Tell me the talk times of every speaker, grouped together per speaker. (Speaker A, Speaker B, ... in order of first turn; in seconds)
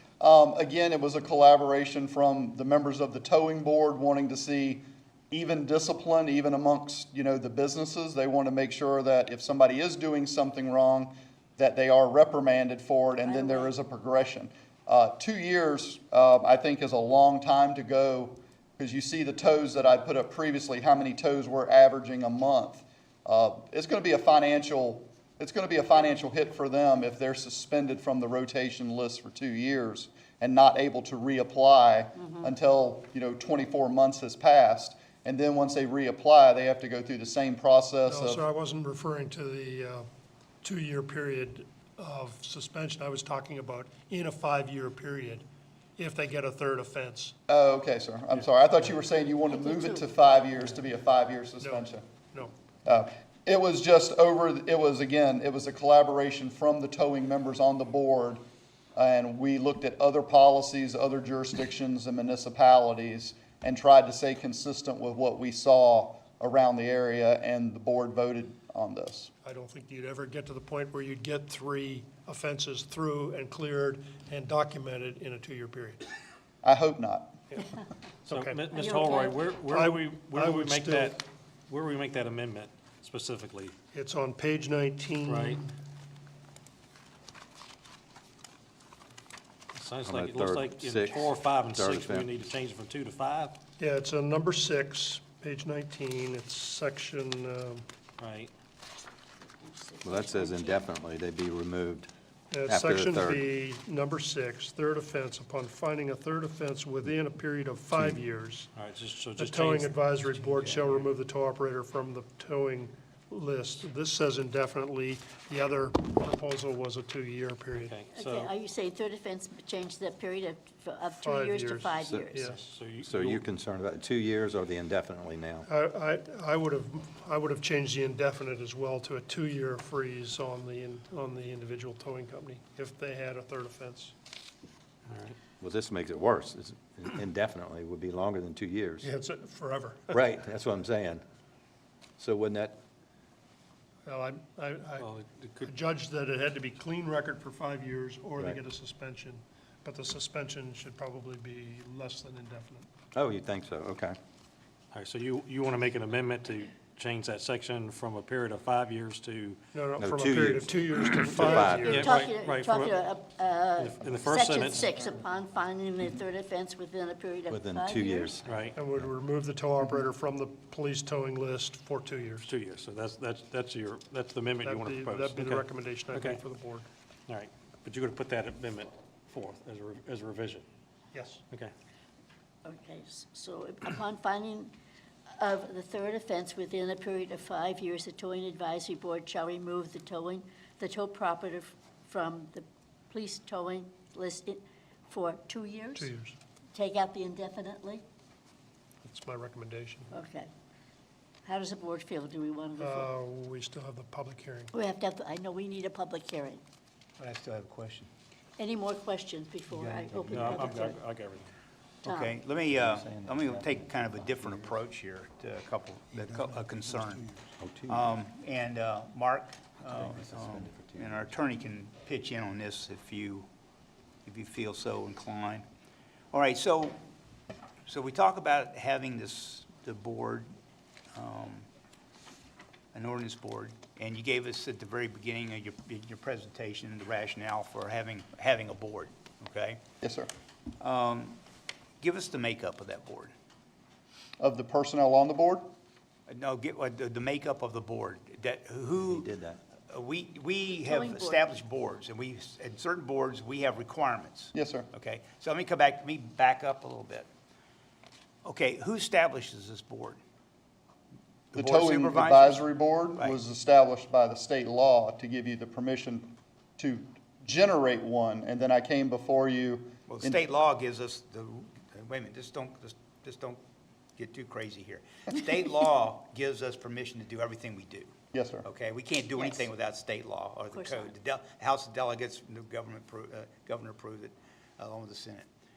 Speaker A: 0.2-38.5, 47.5-52.0, 52.8-58.4, 59.0-69.3, 76.6-77.4, 240.0-240.3, 244.4-245.6, 254.5-254.9, 261.5-270.4, 278.3-278.6
Speaker B: 13.2-13.7, 32.2-32.5, 49.5-50.0, 78.7-79.4, 99.6-100.8, 118.1-122.5, 161.8-168.3, 182.6-184.7, 185.4-196.1, 196.7-198.0, 200.1-200.5, 201.4-203.1, 204.7-206.6, 208.6-210.9, 212.0-212.3, 250.8-251.5, 279.4-279.7, 280.7-281.1
Speaker C: 38.1-40.1, 40.6-45.4, 46.0-47.3, 69.4-76.0, 78.3-78.6, 80.3-81.1, 83.9-85.7, 93.8-97.8, 102.5-108.7, 109.3-117.9, 121.2-122.6, 125.7-134.1, 139.0-140.1, 144.1-145.0, 145.7-152.9, 159.8-162.0, 168.9-172.4, 174.6-176.9, 196.0-196.3, 199.0-200.1, 202.8-204.7
Speaker D: 78.3-83.7, 85.2-85.6, 89.7-93.6, 98.2-98.5, 108.7-110.7, 117.7-118.5, 122.3-123.4, 135.1-135.4, 145.0-145.8, 154.9-159.6, 161.2-162.9, 163.8-164.8, 168.4-168.8, 172.4-176.4, 177.3-180.6, 210.3-211.4
Speaker E: 90.0-92.3, 100.0-102.1, 102.7-103.5, 122.0-122.4, 123.0-125.7, 135.6-139.1, 140.1-141.2, 142.2-142.8, 153.1-154.2, 160.0-162.0, 167.5-168.7, 212.7-213.8, 217.6-218.1, 219.8-221.2, 249.0-249.6
Speaker F: 110.5-111.0, 207.2-208.1, 209.7-210.8, 212.0-223.5, 224.2-225.6, 226.3-227.0, 227.9-230.5, 231.1-231.7, 232.9-239.8, 240.8-241.4, 242.0-243.3, 246.3-249.3, 249.8-257.3, 258.4-260.2, 261.5-262.6, 263.1-263.4, 270.1-273.6, 274.2-278.1, 278.6-285.5